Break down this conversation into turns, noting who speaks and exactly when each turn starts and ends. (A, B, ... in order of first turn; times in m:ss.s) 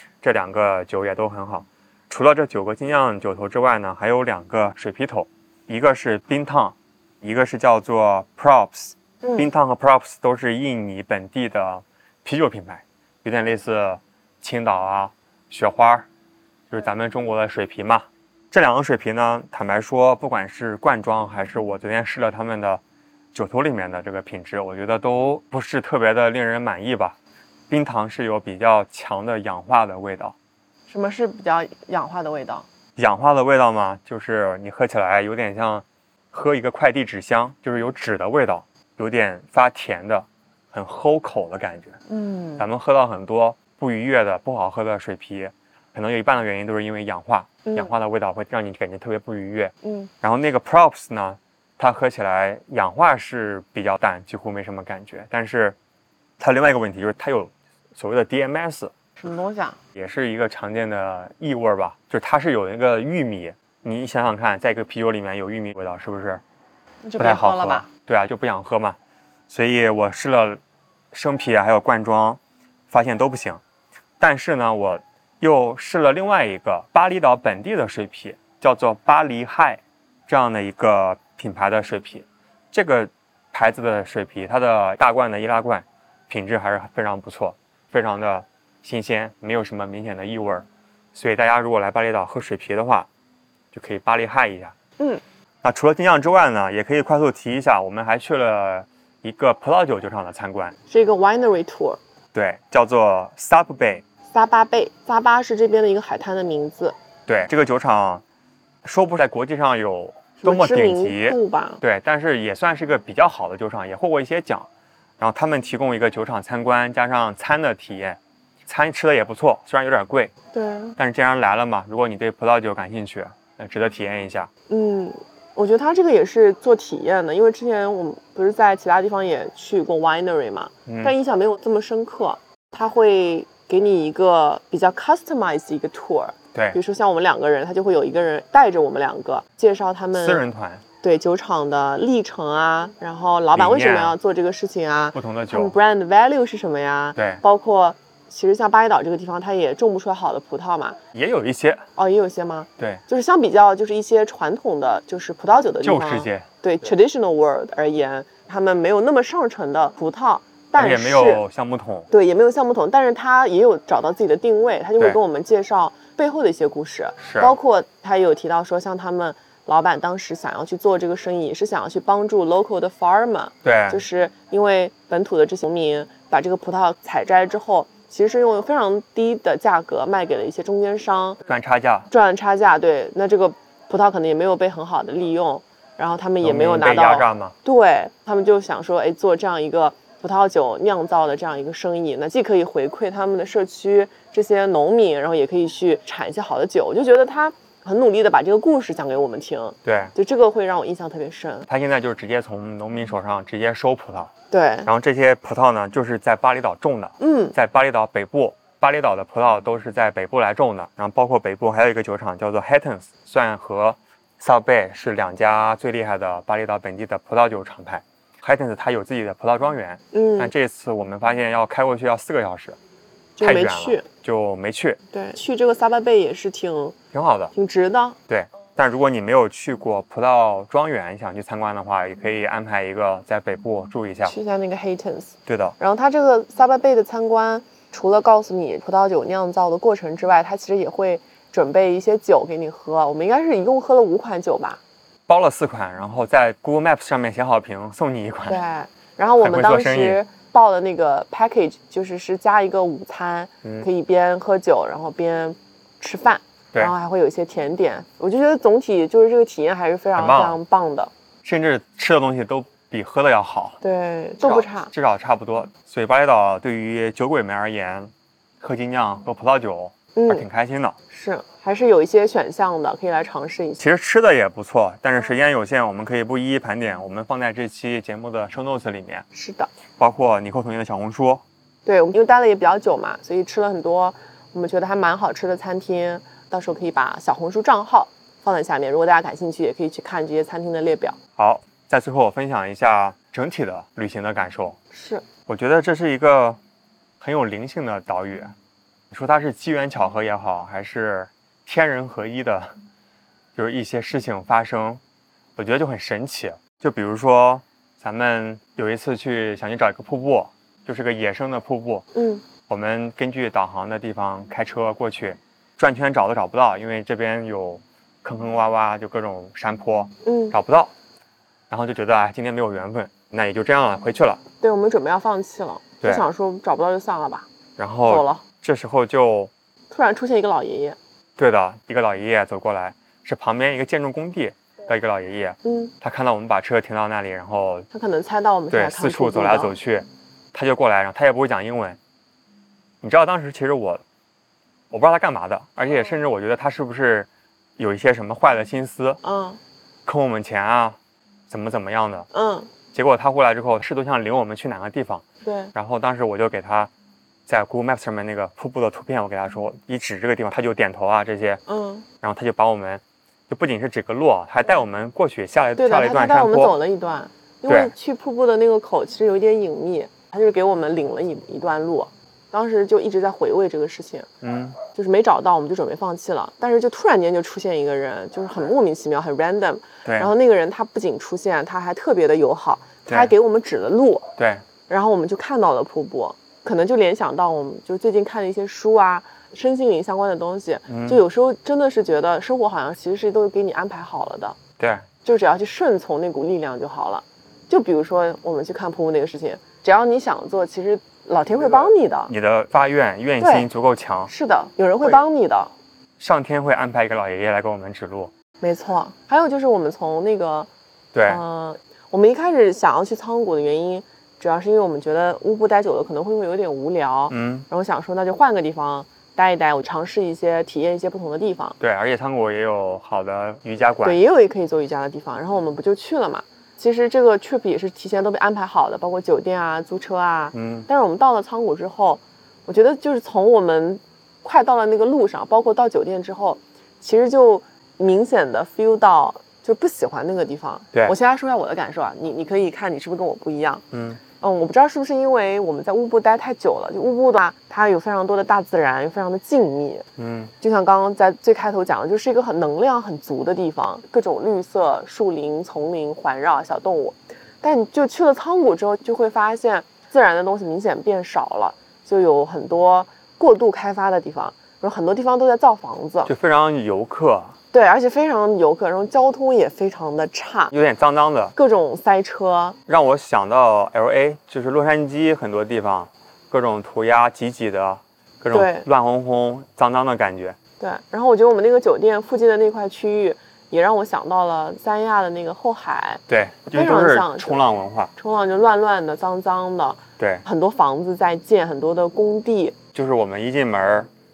0:00.2-0:16.0 A
0:16.7-0:22.8 A
0:23.3-0:27.2 A
0:27.7-0:30.3 A
0:30.9-0:32.6 B
0:33.0-0:42.0 A
0:42.1-0:42.6 B
0:42.6-0:55.8 A
0:47.6-0:47.9 B
0:49.8-0:50.1 B
0:56.4-0:58.9 A
0:59.2-0:59.8 B
0:59.9-1:06.4 A
1:07.0-1:07.9 B
1:07.2-1:09.0 A
1:09.5-1:10.6 A
1:11.1-1:13.6 A
1:14.2-1:33.1 A
1:33.7-1:34.7 A
1:35.6-1:40.8 A
1:40.9-1:42.0 B
1:42.3-1:44.0 A
1:44.3-1:46.9 B
1:47.3-1:48.2 A
1:48.8-2:00.3 A
1:50.4-1:51.8 B
2:00.5-2:01.0 B
2:01.0-2:04.5 A
2:04.7-2:20.4 B
2:10.8-2:11.1 A
2:16.5-2:16.8 A
2:20.1-2:20.8 A
2:21.0-2:31.0 B
2:23.5-2:24.2 A
2:25.1-2:25.7 A
2:27.2-2:27.4 A
2:31.1-2:31.8 A
2:32.0-2:41.4 B
2:35.8-2:36.5 A
2:40.8-2:42.1 A
2:42.1-3:01.4 B
2:47.2-2:47.6 A
2:53.6-2:54.0 A
3:01.4-3:02.1 A
3:02.1-3:21.7 B
3:06.4-3:07.6 A
3:19.8-3:20.1 A
3:21.7-3:24.3 A
3:24.5-3:24.9 B
3:24.8-3:42.8 A
3:27.2-3:27.5 B
3:40.1-3:40.5 B
3:43.4-3:44.0 B
3:43.4-3:45.0 A
3:45.1-3:47.0 B
3:47.1-3:47.5 A
3:47.5-3:48.2 B
3:48.3-3:54.3 A
3:54.2-4:04.8 B
3:55.4-3:55.8 A
4:05.3-4:08.6 A
4:08.5-4:21.1 B
4:09.4-4:10.2 A
4:20.2-4:20.6 A
4:21.4-4:23.8 A
4:23.8-4:24.9 B
4:24.4-4:31.0 A
4:30.1-4:30.4 B
4:31.1-4:33.8 B
4:33.8-4:39.2 A
4:39.3-4:39.7 B
4:40.0-4:41.4 A
4:41.8-4:51.2 B
4:51.4-4:54.8 A
4:54.9-4:55.2 B
4:55.5-4:56.6 A
4:57.2-4:58.5 A
4:59.1-5:02.7 A
5:03.6-5:05.0 A
5:05.6-5:12.1 A
5:12.1-5:12.4 B
5:12.7-5:20.9 A
5:20.2-5:20.6 B
5:21.7-5:24.4 A
5:24.6-5:27.5 B
5:27.8-5:29.5 A
5:28.1-5:28.4 B
5:29.9-5:31.0 B
5:31.4-5:37.9 A
5:35.6-5:35.9 B
5:37.9-5:39.7 B
5:38.7-5:42.0 A
5:43.0-5:44.0 A
5:44.9-5:49.2 A
5:49.2-5:49.6 B
5:50.0-5:51.0 A
5:51.5-5:52.3 A
5:52.3-5:52.7 B
5:52.9-5:56.9 A
5:55.4-5:55.7 B
5:57.5-6:01.6 A
6:01.7-6:02.1 B
6:02.2-6:06.7 A
6:05.8-6:14.3 B
6:07.7-6:07.9 A
6:14.4-6:14.8 A
6:14.9-6:24.3 B
6:20.0-6:20.3 A
6:23.1-6:23.3 A
6:24.4-6:24.6 A
6:24.9-6:34.6 B
6:30.9-6:31.2 A
6:34.8-6:35.1 A
6:35.2-6:42.3 B
6:42.3-6:44.3 A
6:43.4-6:43.7 B
6:44.3-6:45.7 B
6:46.2-6:48.3 A
6:48.6-6:50.7 B
6:51.1-6:51.4 A
6:51.2-7:01.8 B
6:57.3-6:57.7 A
7:01.8-7:04.2 A
7:04.0-7:23.8 B
7:10.5-7:10.9 A
7:23.9-7:24.2 A
7:24.4-7:30.1 B
7:30.2-7:30.5 A
7:30.6-7:46.3 B
7:46.2-7:47.6 A
7:47.7-7:50.7 B
7:50.7-7:51.5 A
7:51.6-7:52.8 B
7:52.9-8:00.6 A
7:58.5-7:58.9 B
8:00.8-8:06.2 B
8:06.3-8:08.1 A
8:06.7-8:07.6 B
8:08.2-8:12.8 B
8:10.2-8:10.4 A
8:12.9-8:14.1 A